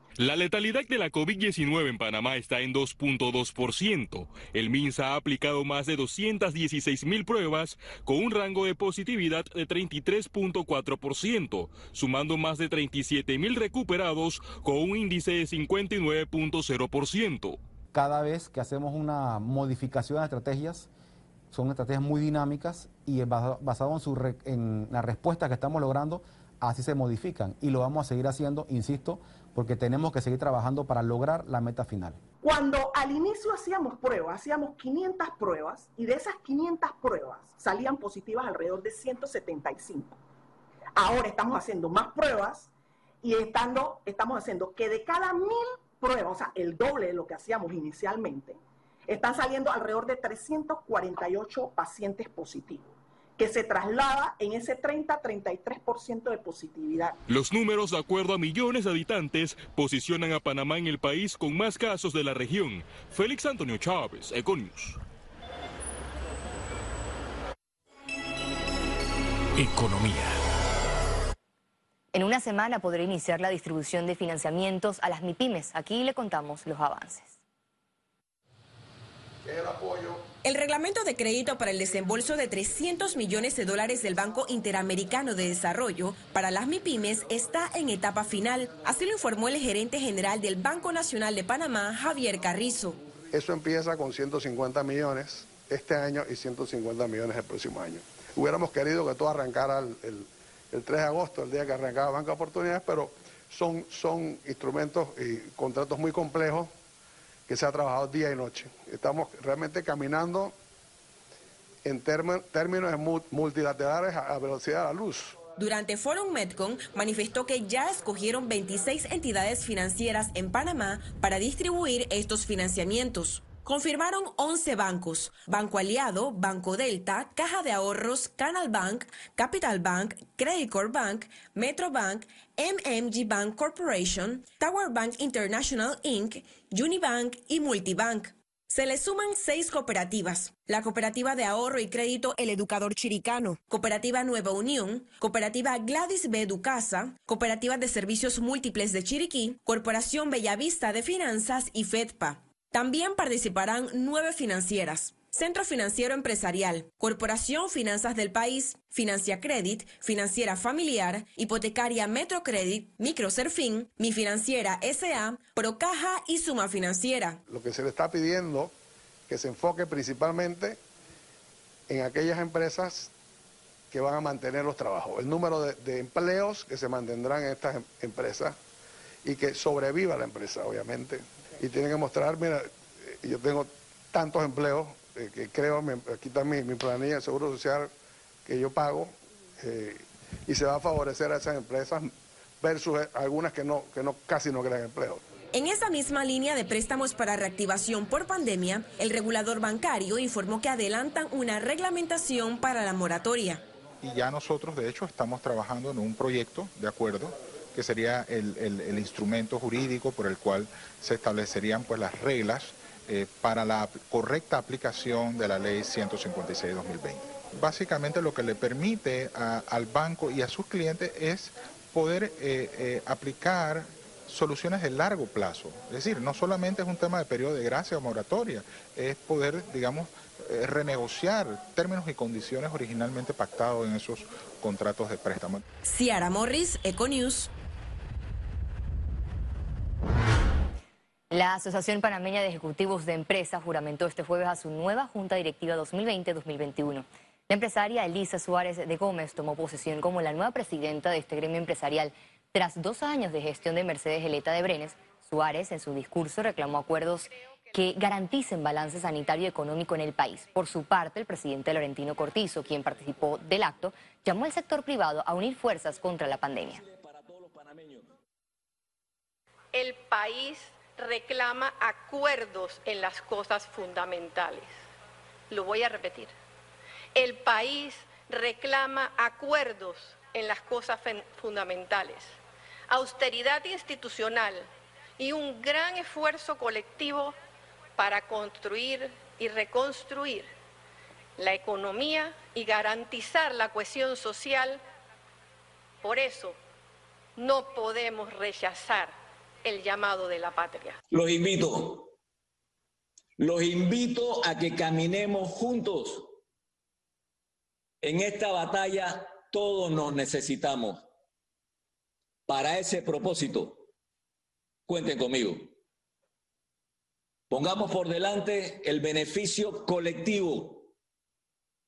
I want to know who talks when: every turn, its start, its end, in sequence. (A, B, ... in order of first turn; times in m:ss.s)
0:00.2-0:17.6 A
0:17.9-0:20.9 B
0:21.5-0:32.2 B
0:32.4-0:40.2 C
0:41.0-0:42.7 C
0:43.2-0:57.2 C
0:57.3-1:05.0 A
1:12.1-1:17.4 D
1:19.4-1:20.3 E
1:20.4-1:33.0 F
1:33.3-1:46.7 E
1:47.5-1:50.5 E
1:51.8-1:55.4 E
1:55.6-2:47.4 F
2:47.5-2:48.7 E
2:49.3-2:50.8 E
2:51.9-2:53.1 E
2:53.9-2:58.6 E
2:59.2-3:07.9 E
3:08.5-3:15.2 E
3:15.5-3:23.6 F
3:24.0-3:55.6 G
3:55.8-3:57.5 F
4:01.3-4:26.8 D
4:26.9-4:28.1 H
4:29.7-4:34.8 I
4:35.5-4:36.3 I
4:37.1-4:42.4 I
4:42.9-4:47.4 I
4:48.0-4:50.5 I
4:51.4-4:54.8 I
4:56.0-4:56.6 I
4:57.4-5:01.0 I
5:01.1-5:02.1 H
5:03.4-5:06.3 H
5:08.0-5:11.1 H
5:12.5-5:13.8 H
5:14.9-5:15.7 H
5:17.5-5:20.9 H